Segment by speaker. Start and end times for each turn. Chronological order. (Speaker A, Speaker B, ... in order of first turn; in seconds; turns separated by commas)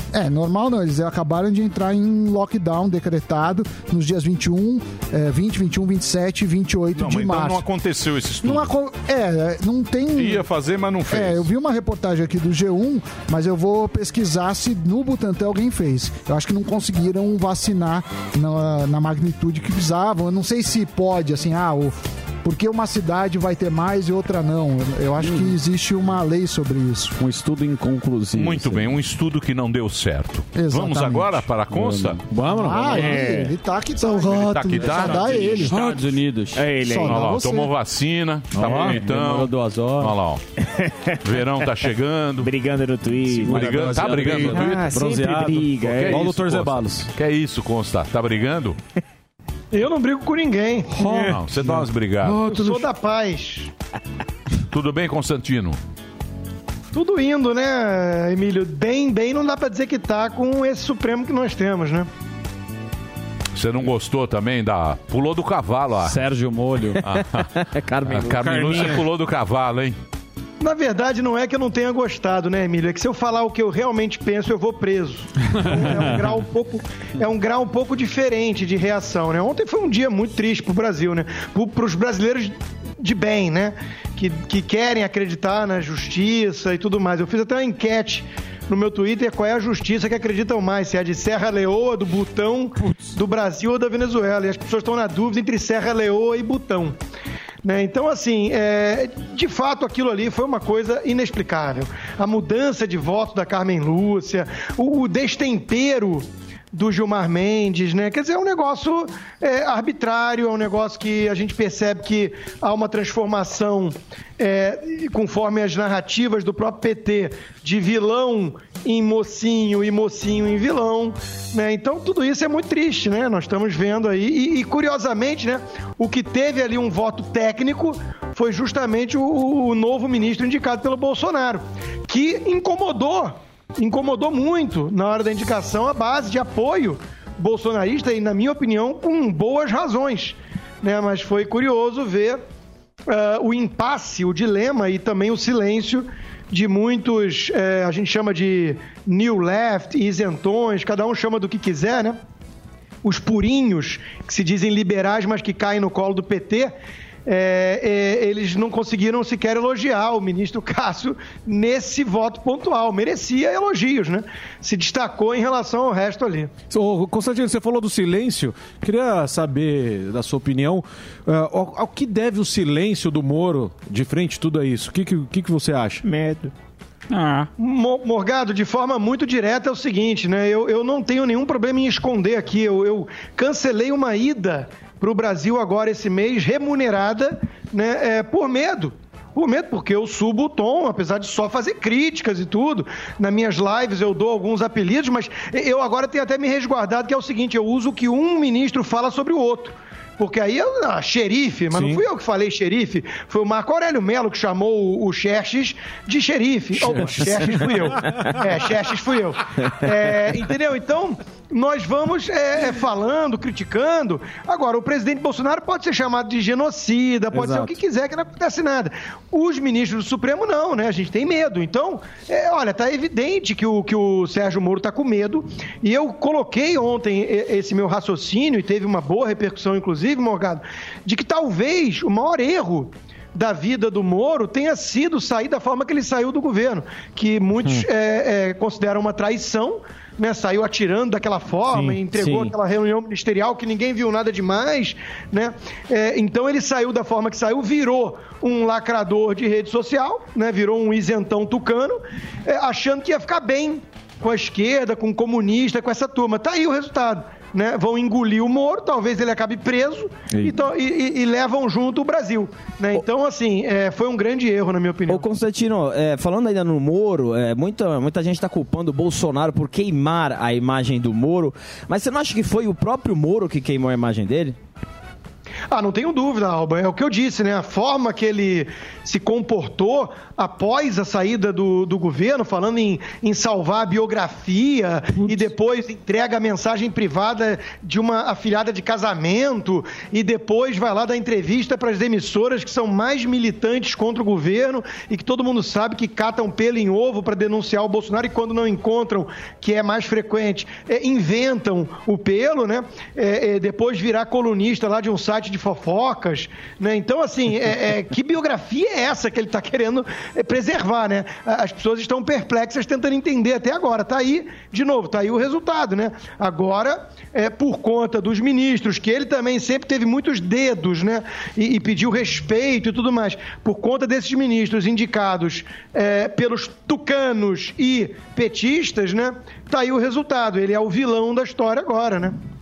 Speaker A: 0.1-7.6, Speaker B: 7.0-8.7, Speaker A: 8.4-10.5, Speaker B: 10.2-11.5, Speaker A: 11.1-27.1, Speaker C: 25.2-25.5, Speaker C: 27.2-29.0, Speaker B: 28.4-32.2, Speaker A: 30.6-31.5, Speaker C: 31.7-32.2, Speaker D: 32.3-32.9, Speaker A: 32.5-35.8, Speaker C: 32.8-33.3, Speaker E: 33.0-33.5, Speaker B: 34.0-36.0, Speaker C: 35.0-36.7, Speaker E: 36.5-37.2, Speaker A: 36.9-37.7, Speaker B: 36.9-40.4, Speaker C: 38.6-40.1, Speaker E: 38.6-39.1, Speaker D: 38.7-39.0, Speaker B: 41.2-42.5, Speaker E: 42.4-46.3, Speaker B: 43.4-45.0, Speaker C: 43.5-44.7, Speaker D: 44.1-46.7, Speaker B: 45.8-48.8, Speaker F: 49.7-50.9, Speaker D: 50.9-52.7, Speaker B: 51.0-52.5, Speaker F: 52.3-53.7, Speaker B: 54.7-55.8, Speaker F: 56.9-62.1, Speaker B: 63.5-66.2, Speaker C: 66.0-67.0, Speaker B: 67.0-67.5, Speaker E: 67.9-68.3, Speaker B: 68.0-70.0, Speaker D: 68.5-69.0, Speaker F: 70.6-97.0, Speaker F: 97.6-142.4, Speaker F: 143.1-152.2, Speaker F: 153.0-156.7, Speaker F: 157.3-166.5, Speaker D: 166.7-176.5, Speaker F: 177.6-265.3, Speaker D: 201.7-202.0, Speaker D: 217.4-217.7, Speaker D: 241.7-242.0, Speaker G: 265.1-274.6, Speaker F: 275.7-332.4